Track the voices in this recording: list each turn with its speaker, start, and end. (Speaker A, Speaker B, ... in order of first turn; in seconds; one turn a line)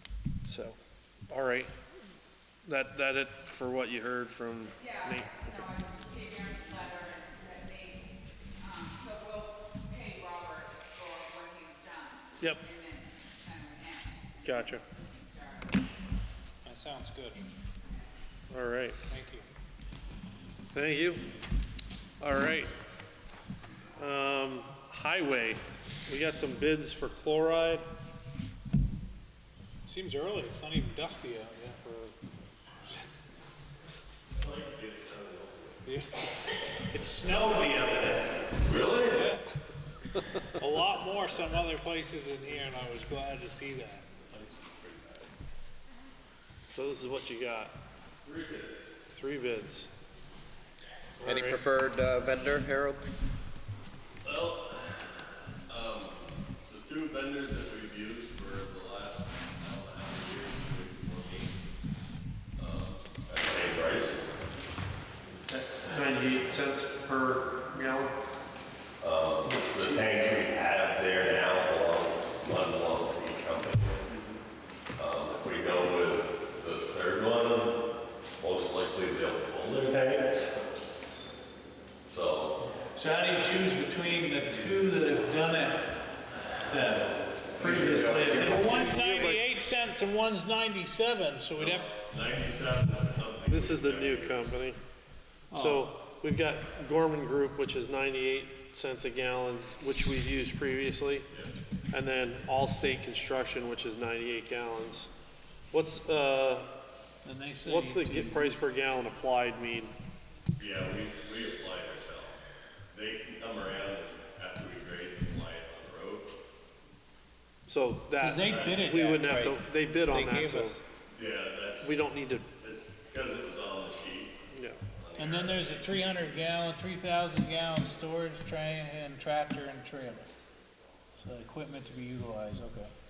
Speaker A: 0.5-0.8
Speaker A: 1.3-1.8
Speaker A: 2.6-5.7
Speaker B: 5.6-8.0
Speaker B: 8.6-15.7
Speaker A: 12.4-12.7
Speaker A: 14.4-14.8
Speaker C: 16.6-17.4
Speaker A: 18.5-19.0
Speaker C: 19.1-19.5
Speaker A: 20.7-21.3
Speaker A: 22.2-22.7
Speaker A: 23.9-27.9
Speaker C: 29.9-32.1
Speaker D: 34.4-35.9
Speaker C: 35.9-36.2
Speaker C: 36.8-38.4
Speaker D: 37.4-39.3
Speaker C: 39.1-39.5
Speaker C: 40.5-44.1
Speaker D: 44.2-45.3
Speaker A: 46.7-47.8
Speaker D: 48.2-48.9
Speaker A: 49.0-49.9
Speaker A: 51.2-51.6
Speaker E: 51.2-53.1
Speaker D: 54.2-61.6
Speaker D: 62.6-64.3
Speaker A: 65.5-68.2
Speaker D: 69.0-74.2
Speaker D: 75.0-77.8
Speaker D: 78.4-80.6
Speaker D: 82.0-82.7
Speaker C: 82.9-86.0
Speaker C: 86.7-91.9
Speaker D: 87.6-88.0
Speaker A: 87.6-89.5
Speaker E: 87.6-89.3
Speaker D: 91.5-94.5
Speaker A: 93.5-94.8
Speaker C: 95.5-95.8
Speaker A: 95.5-101.3
Speaker A: 101.9-105.1
Speaker A: 105.7-106.7
Speaker C: 107.2-108.5
Speaker A: 107.6-109.9
Speaker D: 110.6-112.4
Speaker D: 112.9-116.3
Speaker A: 117.7-120.8
Speaker C: 118.2-120.8
Speaker D: 118.4-119.0
Speaker D: 121.1-122.0
Speaker A: 121.8-122.5
Speaker D: 122.6-124.4
Speaker A: 124.5-124.8
Speaker D: 124.9-126.1
Speaker C: 125.2-130.3
Speaker C: 131.2-132.9